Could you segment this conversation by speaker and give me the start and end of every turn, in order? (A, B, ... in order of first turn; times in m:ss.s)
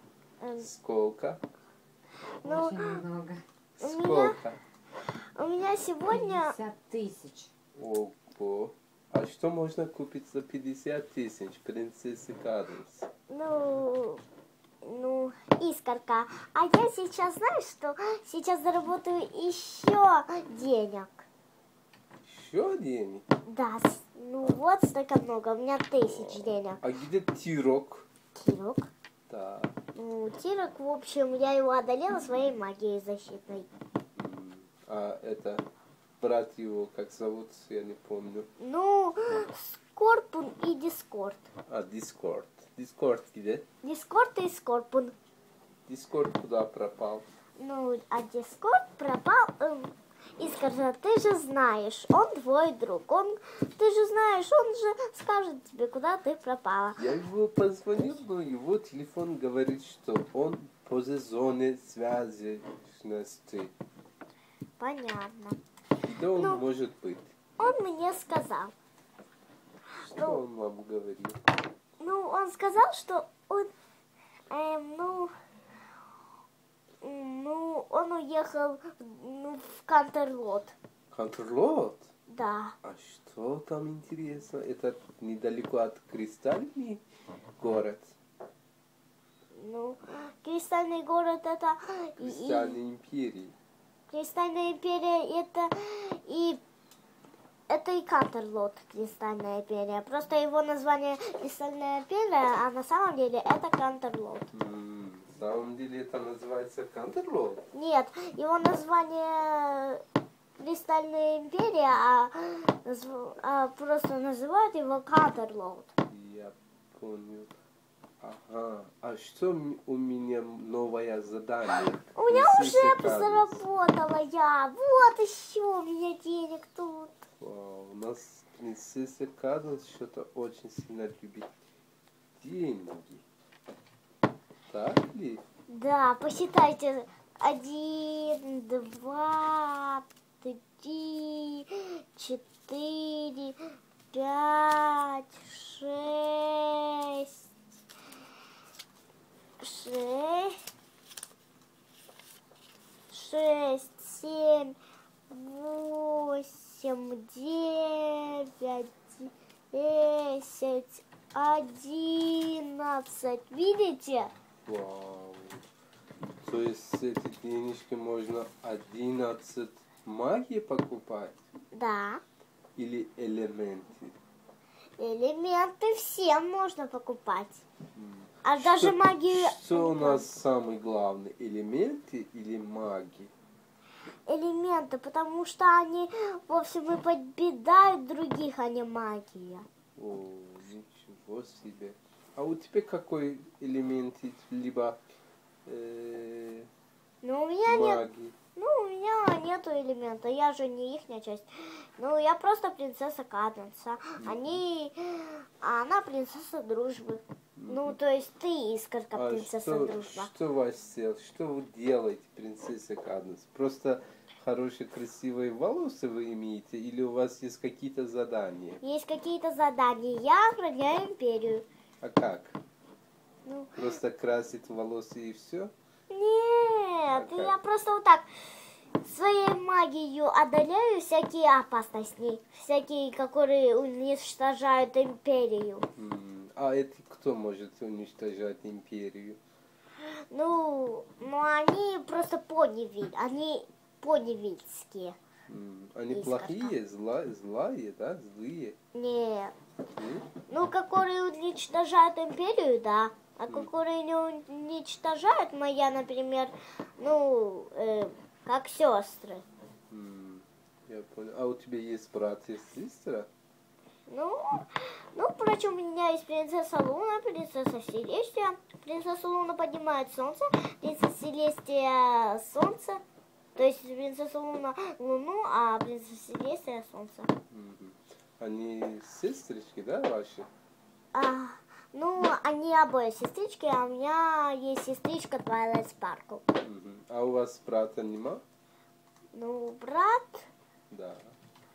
0:00.4-0:00.7 A
0:00.6-0:01.4 B
0:02.4-0:03.0 A
0:02.4-0:03.4 C
0:03.8-0:04.4 A
0:03.8-0:04.6 B
0:05.4-0:06.6 A
0:06.1-0:07.5 C
0:07.8-0:13.1 B
0:13.3-0:14.2 A
0:14.8-0:21.3 A
0:22.2-0:23.2 B
0:23.5-0:26.8 A
0:26.8-0:28.1 B
0:28.3-0:28.9 A
0:29.3-0:29.8 B
0:30.0-0:33.7 A
0:34.2-0:35.6 B
0:36.2-0:38.5 B
0:38.6-0:41.5 A
0:41.7-0:43.6 B
0:43.8-0:45.1 A
0:45.9-0:47.3 B
0:47.6-0:57.0 A
0:57.0-1:03.7 B
1:04.8-1:05.6 A
1:06.0-1:07.3 B
1:06.4-1:06.6 A
1:07.6-1:08.7 A
1:10.0-1:11.4 B
1:10.1-1:10.4 A
1:12.0-1:13.7 A
1:14.5-1:15.4 A
1:17.0-1:20.8 A
1:21.1-1:22.1 B
1:22.3-1:22.8 A
1:22.8-1:27.0 B
1:27.6-1:28.1 B
1:29.5-1:32.8 A
1:32.2-1:33.6 B
1:34.1-1:36.6 A
1:37.7-1:44.4 A
1:44.5-1:47.6 B
1:47.7-1:50.0 A
1:50.6-1:55.9 A
1:56.1-1:57.5 B
1:58.2-2:03.5 B
2:02.2-2:07.2 A
2:07.4-2:11.5 B
2:12.4-2:13.2 B
2:14.7-2:15.4 B
2:15.7-2:23.6 A
2:24.1-2:27.3 A
2:29.6-2:30.6 A
2:33.1-2:34.8 A
2:35.3-2:44.3 A
2:44.6-2:45.6 B
2:46.4-2:51.4 B
2:51.7-2:52.2 A
2:52.8-2:54.2 B
2:55.0-2:57.6 A
2:57.9-3:03.3 B
2:58.4-3:00.2 A
3:04.3-3:09.7 A
3:10.0-3:15.0 B
3:15.7-3:16.7 B
3:17.2-3:18.0 A
3:17.7-3:18.3 B
3:18.6-3:30.3 A
3:24.2-3:24.6 B
3:27.6-3:28.0 B
3:29.1-3:38.8 B
3:38.8-3:41.6 A
3:42.0-3:42.6 B
3:43.4-3:43.8 A
3:43.8-3:45.7 B
3:46.1-3:48.3 A
3:47.1-3:47.6 B
3:49.0-3:55.9 A
3:56.0-3:59.4 B
4:00.0-4:05.2 A
4:05.5-4:08.8 B
4:06.1-4:06.7 A
4:08.9-4:09.6 A
4:10.0-4:10.3 B
4:10.5-4:19.4 A
4:19.9-4:23.3 B
4:24.1-4:33.0 A
4:33.6-4:37.3 A
4:37.5-4:40.5 B
4:41.1-4:46.4 A
4:46.6-4:48.4 B
4:49.3-4:50.5 A
4:50.9-4:51.4 B